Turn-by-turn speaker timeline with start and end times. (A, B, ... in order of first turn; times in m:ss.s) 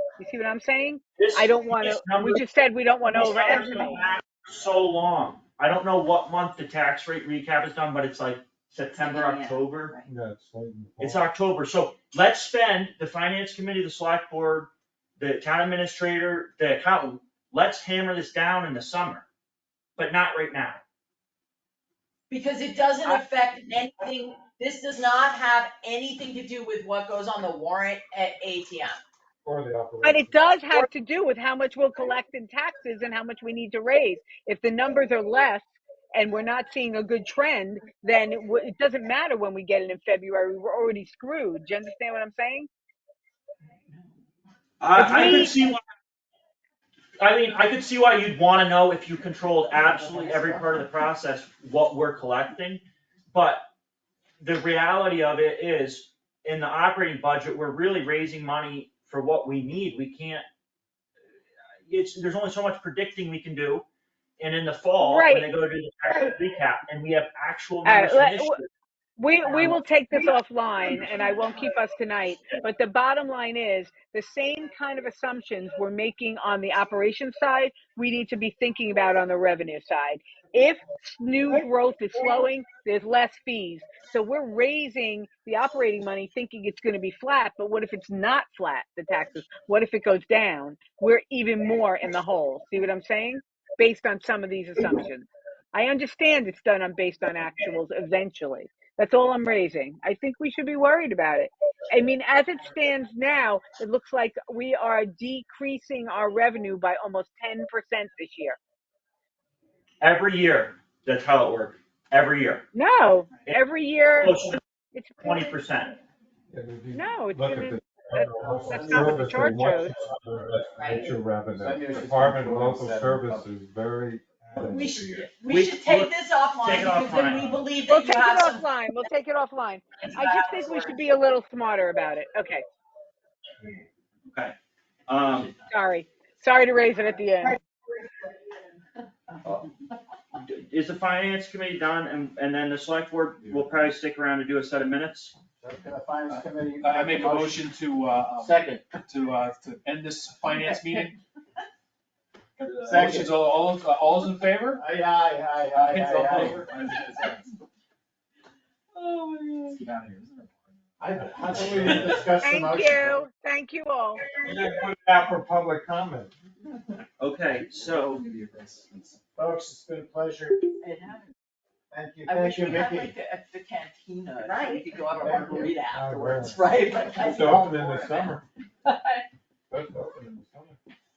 0:00.2-0:04.0 A
0:01.2-0:02.4 B
0:03.2-0:10.0 B
0:09.0-0:10.1 C
0:10.1-0:11.3 D
0:11.0-0:19.3 B
0:20.0-0:20.8 B
0:22.3-0:29.0 C
0:29.4-0:30.5 D
0:30.0-0:42.7 A
0:44.8-0:45.8 B
0:45.0-0:45.6 A
0:47.2-0:53.7 B
0:49.7-0:50.8 C
0:54.4-1:00.4 B
1:01.8-1:03.8 B
1:04.4-1:08.7 B
1:05.0-1:05.5 A
1:07.8-1:08.6 A
1:09.2-1:48.6 A
1:50.0-1:52.7 B
1:52.7-1:55.5 A
1:54.2-1:54.6 B
1:55.2-1:56.0 B
1:56.5-2:05.0 D
1:56.9-1:59.9 A
1:58.6-1:59.4 E
2:00.8-2:01.1 C
2:01.5-2:03.5 E
2:04.6-2:08.6 C
2:05.2-2:07.6 B
2:07.9-2:12.6 A
2:10.0-2:11.0 C
2:14.3-2:14.6 B
2:15.1-2:15.5 B
2:15.7-2:17.6 A
2:19.4-2:19.7 B
2:20.4-2:25.3 B
2:25.6-2:27.7 E
2:26.3-2:31.2 F
2:28.4-2:28.8 E
2:32.6-2:33.3 B
2:32.6-2:34.8 F
2:32.9-2:33.3 E
2:34.7-2:36.6 E
2:35.7-2:37.6 F
2:38.9-2:39.8 B
2:39.7-2:40.5 F
2:41.0-2:43.2 E
2:41.6-2:42.2 D
2:41.7-2:42.1 F
2:42.3-2:44.2 A
2:44.4-2:46.3 D
2:47.2-2:48.2 B
2:48.2-2:49.1 F
2:49.4-2:50.7 E
2:50.8-2:51.3 C
2:51.9-2:53.2 E
2:52.3-2:59.2 C
2:55.1-2:55.8 E
2:55.9-2:58.4 D
2:59.7-3:00.8 D